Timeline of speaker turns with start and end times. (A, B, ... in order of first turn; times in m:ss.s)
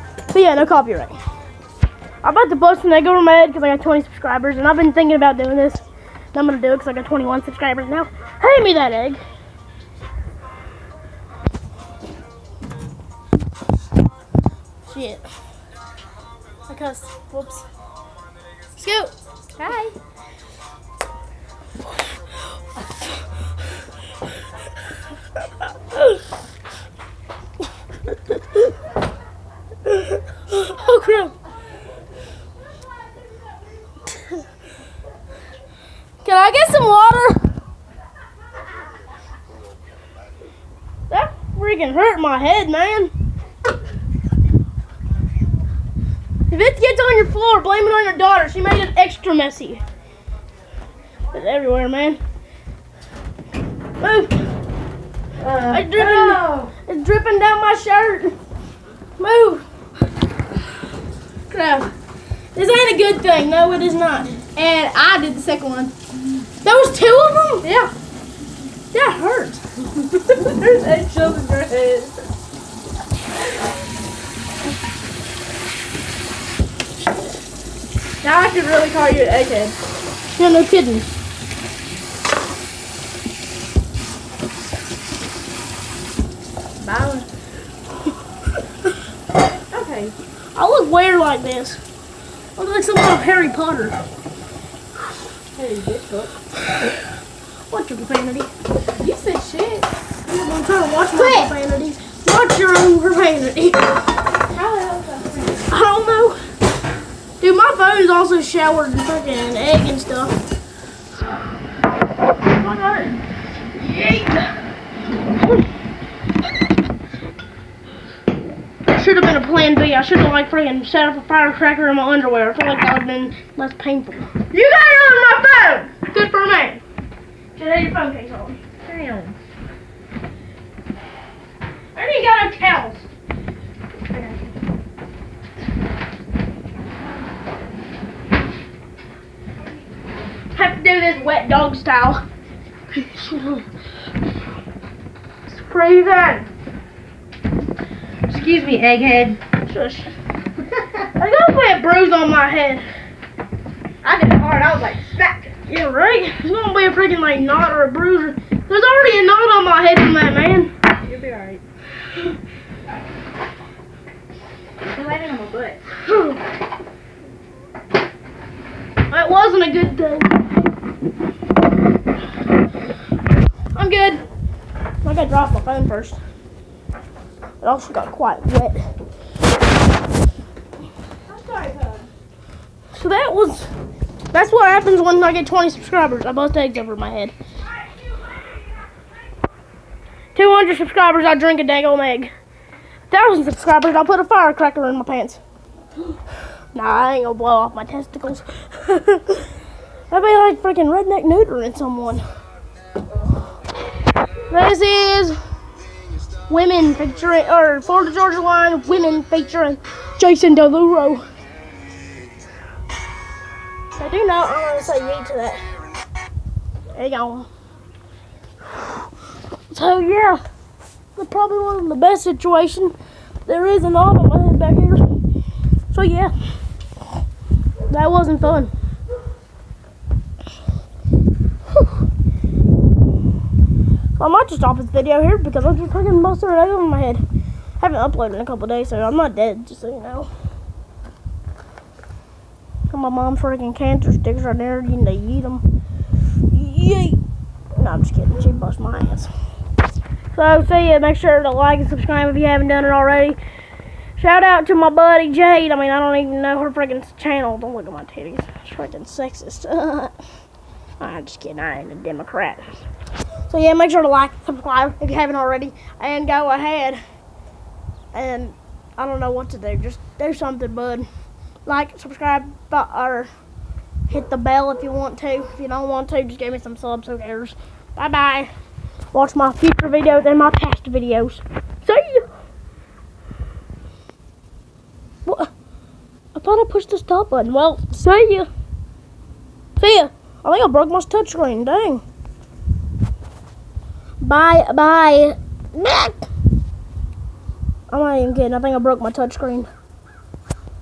0:00.3-0:01.2 A
0:02.2-0:05.8 A
0:06.3-0:09.2 A
0:14.9-0:15.2 A
0:16.7-0:17.6 B
0:18.7-0:19.1 A
0:19.6-0:19.9 B
0:29.9-0:31.3 A
0:36.2-0:37.4 A
0:41.1-0:43.1 A
0:46.5-0:49.8 A
0:51.3-0:52.2 A
0:54.0-0:54.4 A
0:55.4-0:56.7 B
0:55.7-0:58.4 A
0:59.2-0:59.6 A
1:01.5-1:01.9 A
1:02.5-1:05.9 A
1:06.6-1:07.7 A
1:07.6-1:07.9 B
1:08.9-1:09.6 A
1:10.1-1:12.3 B
1:18.2-1:19.8 B
1:20.3-1:21.1 A
1:26.8-1:27.3 B
1:29.7-1:30.1 B
1:30.5-1:31.8 A
1:32.6-1:34.0 A
1:35.6-1:36.3 B
1:37.7-1:38.5 A
1:39.0-1:39.9 B
1:40.3-1:43.9 A
1:41.1-1:41.5 B
1:44.5-1:45.7 B
1:45.7-1:46.4 A
1:47.4-1:50.4 A
1:52.6-1:53.1 A
1:53.8-1:54.5 A
1:58.9-2:04.3 A
2:04.5-2:05.9 B
2:06.1-2:06.8 A
2:07.5-2:08.6 A
2:08.8-2:09.4 B
2:12.0-2:13.0 A
2:14.1-2:14.4 A
2:20.5-2:22.2 A
2:22.9-2:23.6 A
2:25.5-2:26.4 A
2:28.3-2:29.4 B
2:29.7-2:30.1 A
2:31.0-2:32.8 A
2:34.0-2:35.5 B
2:35.7-2:40.7 A
2:41.0-2:41.6 B
2:44.8-2:45.8 B
2:46.0-2:46.4 A
2:49.1-2:50.4 A
2:53.7-2:54.2 A
2:55.0-2:56.2 A
2:57.6-2:58.8 A
3:01.3-3:02.1 B
3:02.9-3:03.7 A
3:04.3-3:07.3 A
3:10.3-3:12.3 A
3:13.1-3:15.4 A
3:16.7-3:19.5 A
3:20.1-3:22.2 A
3:24.5-3:25.4 A
3:26.5-3:31.2 A
3:34.0-3:35.6 A
3:36.9-3:37.5 A
3:39.7-3:40.4 A
3:41.2-3:42.9 A
3:43.4-3:45.0 A
3:45.9-3:46.3 A
3:47.9-3:48.7 A
3:54.2-3:57.2 A
3:57.8-4:00.3 A
4:02.9-4:05.6 A
4:06.5-4:07.2 A
4:07.8-4:09.3 A
4:10.3-4:13.4 A
4:14.2-4:20.1 A
4:21.0-4:22.8 A
4:23.5-4:27.0 A
4:28.1-4:31.1 A
4:31.6-4:33.3 A
4:34.1-4:38.5 A
4:39.1-4:42.2 A
4:45.2-4:45.5 A
4:46.3-4:48.5 A
4:49.8-4:52.0 A
4:54.2-4:56.2 A
4:57.9-4:59.7 A